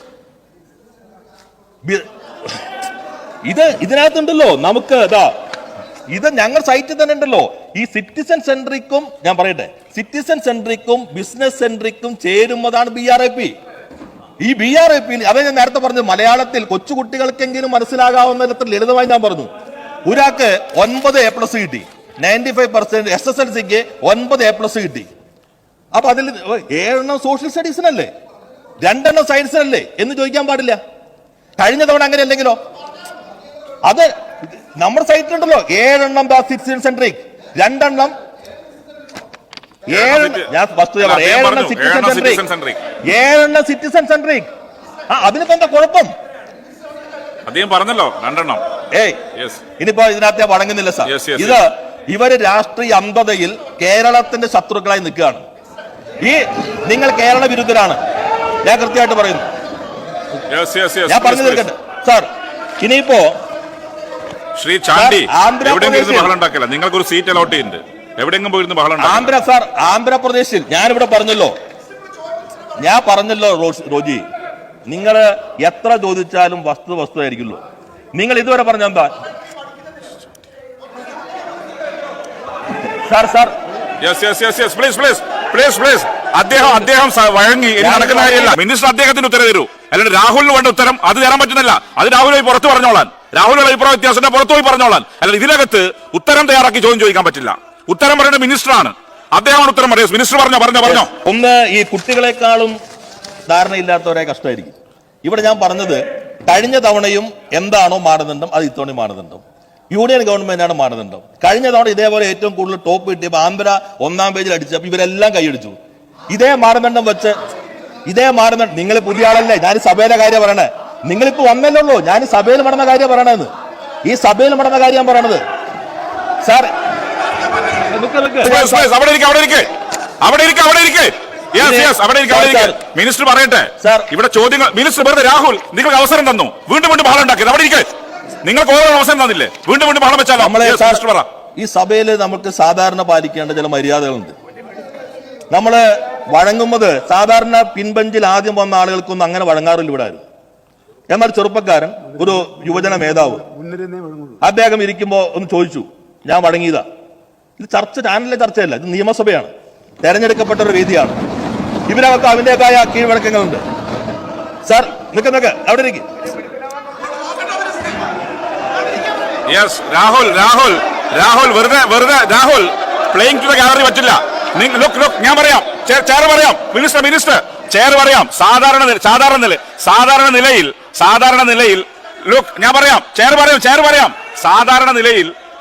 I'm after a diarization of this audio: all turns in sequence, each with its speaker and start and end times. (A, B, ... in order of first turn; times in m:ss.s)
0:01.8-0:02.5 A
0:03.4-0:05.3 A
0:06.1-0:13.5 A
0:14.4-0:19.5 A
0:20.0-0:25.1 A
0:25.9-0:28.1 A
0:28.8-0:30.8 A
0:31.6-0:32.6 A
0:33.8-0:38.1 A
0:39.9-0:42.4 A
0:39.9-0:40.5 B
0:41.0-0:42.8 B
0:43.0-0:44.5 A
0:45.1-0:46.1 A
0:47.4-0:48.6 B
0:48.9-0:49.2 A
0:49.3-0:49.6 B
0:49.8-0:55.4 A
0:51.0-0:51.6 B
0:56.2-0:58.0 A
0:58.6-0:59.5 A
1:00.5-1:01.6 B
1:01.1-1:02.3 A
1:02.8-1:03.3 A
1:04.6-1:09.3 B
1:04.9-1:06.3 A
1:09.0-1:11.5 A
1:12.8-1:14.2 A
1:14.9-1:17.6 A
1:18.1-1:19.1 A
1:23.0-1:23.5 A
1:24.0-1:41.1 B
1:27.8-1:28.6 A
1:40.8-1:42.8 A
1:43.5-1:55.8 A
1:56.3-1:57.4 A
1:58.1-2:03.5 A
2:04.0-2:05.4 A
2:06.4-2:06.7 A
2:07.9-2:08.9 A
2:08.4-2:09.7 B
2:10.2-2:17.9 B
2:11.6-2:12.8 A
2:13.8-2:14.1 A
2:18.4-2:21.3 B
2:20.4-2:21.0 A
2:21.6-2:24.3 A
2:25.5-2:30.2 A
2:31.1-2:33.5 A
2:34.4-2:36.8 A
2:37.6-2:39.5 A
2:40.0-2:41.2 A
2:41.9-2:43.6 A
2:44.6-2:46.0 A
2:49.5-3:05.3 B